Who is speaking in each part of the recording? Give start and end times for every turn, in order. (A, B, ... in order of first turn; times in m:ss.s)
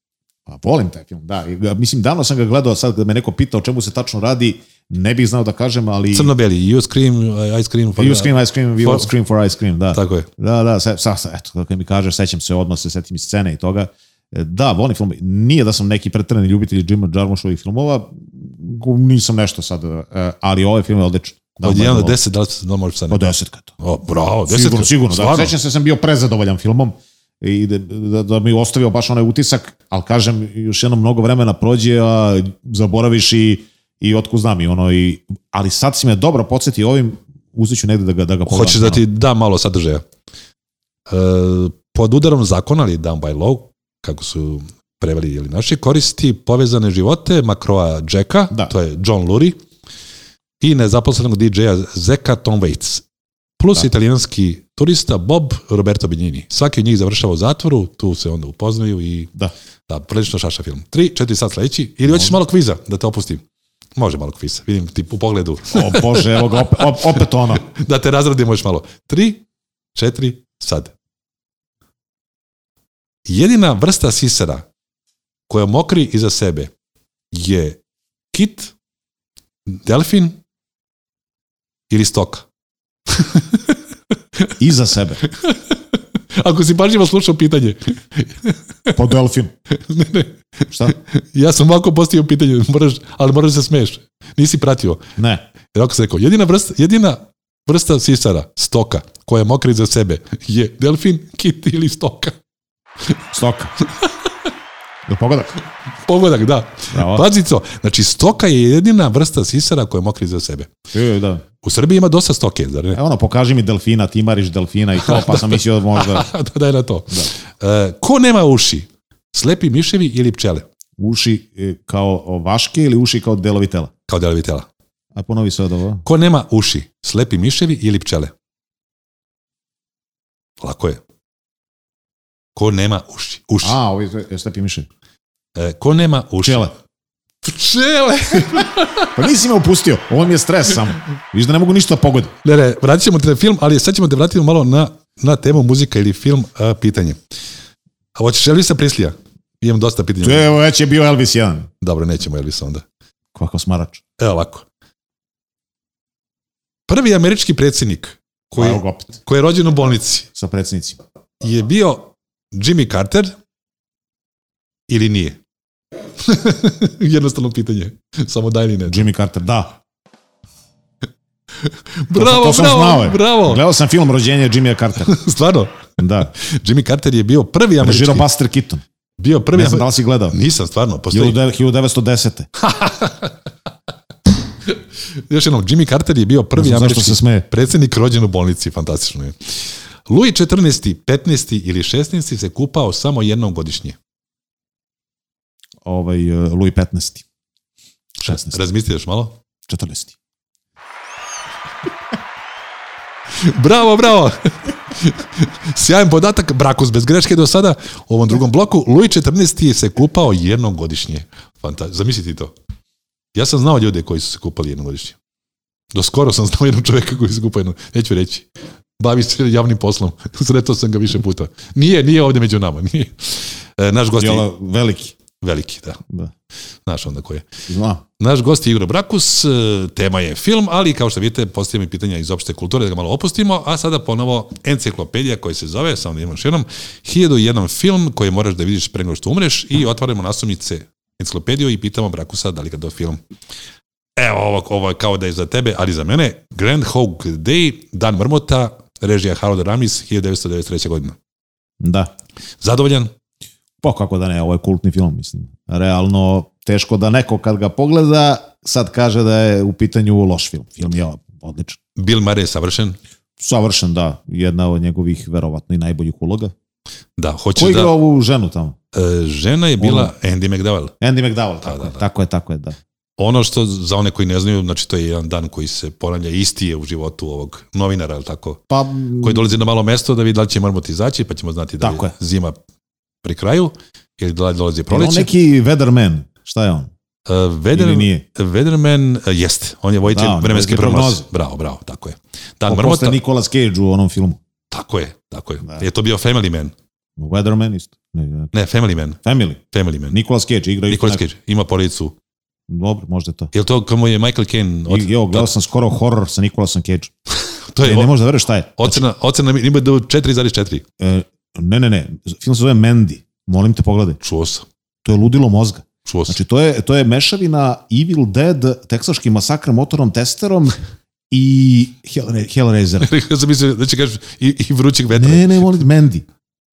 0:00.5-0:06.3 A
0:06.1-0:09.1 B
0:08.0-0:22.2 A
0:09.9-0:10.3 B
0:21.6-0:23.3 B
0:23.1-0:23.7 A
0:23.8-0:25.5 B
0:24.5-0:39.0 A
0:38.5-0:40.0 B
0:41.1-0:49.6 B
0:50.6-0:53.0 B
0:53.6-0:59.3 B
0:59.9-1:03.4 B
1:02.1-1:02.4 A
1:04.0-1:07.0 B
1:05.7-1:07.6 A
1:07.5-1:09.4 B
1:10.0-1:10.9 B
1:13.3-1:14.7 B
1:15.5-1:16.7 B
1:17.3-1:17.8 B
1:18.3-1:18.7 B
1:19.7-1:20.4 B
1:21.9-1:22.5 B
1:23.1-1:23.7 B
1:24.6-1:25.2 A
1:25.2-1:25.8 B
1:26.4-1:29.0 B
1:29.0-1:29.5 A
1:29.7-1:35.0 B
1:35.2-1:35.4 A
1:35.7-1:42.4 B
1:43.3-1:43.7 A
1:45.1-1:45.5 A
1:46.1-1:50.7 B
1:46.9-1:47.3 A
1:50.9-1:51.4 A
1:51.6-1:53.0 B
1:52.9-1:56.3 A
1:55.0-2:00.6 B
2:01.0-2:03.9 A
2:04.1-2:04.7 B
2:05.2-2:06.0 A
2:06.0-2:08.3 B
2:10.6-2:11.0 B
2:12.6-2:13.8 B
2:13.6-2:14.9 A
2:15.6-2:16.7 B
2:16.4-2:16.7 A
2:17.4-2:19.2 B
2:19.1-2:22.3 A
2:22.4-2:27.2 B
2:28.2-2:30.5 B
2:30.2-2:31.7 A
2:31.8-2:32.8 B
2:33.4-2:34.0 A
2:34.2-2:34.6 B
2:36.9-2:40.3 B
2:38.6-2:39.2 A
2:40.4-2:41.0 A
2:41.4-2:43.4 B
2:44.9-2:45.4 B
2:46.2-2:49.1 B
2:48.9-2:49.8 A
2:51.6-2:53.6 B
2:52.1-2:55.2 A
2:55.0-2:58.3 B
2:56.0-2:56.3 A
2:57.8-2:58.8 A
2:59.2-3:01.4 B
2:59.5-3:00.4 A
3:01.1-3:02.5 A
3:02.6-3:03.3 B
3:05.2-3:09.4 B
3:06.6-3:07.5 A
3:10.1-3:14.0 B
3:15.8-3:17.2 A
3:18.2-3:18.6 A
3:18.2-3:19.4 B
3:19.7-3:20.1 A
3:23.4-3:32.5 B
3:33.4-3:35.2 B
3:35.9-3:38.5 B
3:39.0-3:44.5 B
3:44.2-3:45.2 A
3:45.4-3:46.0 B
3:46.9-3:47.4 B
3:47.7-3:48.0 A
3:48.2-4:03.2 B
4:04.2-4:11.2 B
4:11.8-4:12.1 A
4:12.6-4:13.1 B
4:13.8-4:21.8 A
4:22.0-4:23.0 B
4:23.4-4:26.5 A
4:27.2-4:27.9 B
4:27.6-4:28.8 A
4:28.9-4:30.9 B
4:29.8-4:30.1 A
4:31.0-4:32.8 A
4:31.6-4:32.0 B
4:33.2-4:38.6 B
4:38.7-4:39.5 A
4:39.2-4:42.6 B
4:41.8-4:42.1 A
4:43.2-4:45.3 B
4:44.9-4:46.9 A
4:47.3-4:53.2 B
4:47.7-4:48.2 A
4:50.1-4:51.3 A
4:52.7-4:54.4 A
4:54.7-4:56.8 B
4:57.2-4:58.5 A
4:58.5-4:59.2 B
4:59.2-5:01.2 A
4:59.7-5:00.2 B
5:00.9-5:02.2 B
5:02.7-5:03.5 A
5:03.5-5:05.5 B
5:04.9-5:07.1 A
5:07.7-5:08.1 B
5:07.8-5:09.0 A
5:08.8-5:10.8 B
5:11.0-5:14.2 A
5:14.2-5:14.6 B
5:15.0-5:20.8 A
5:16.1-5:16.4 B
5:21.3-5:23.1 A
5:23.0-5:25.8 B
5:25.1-5:26.2 A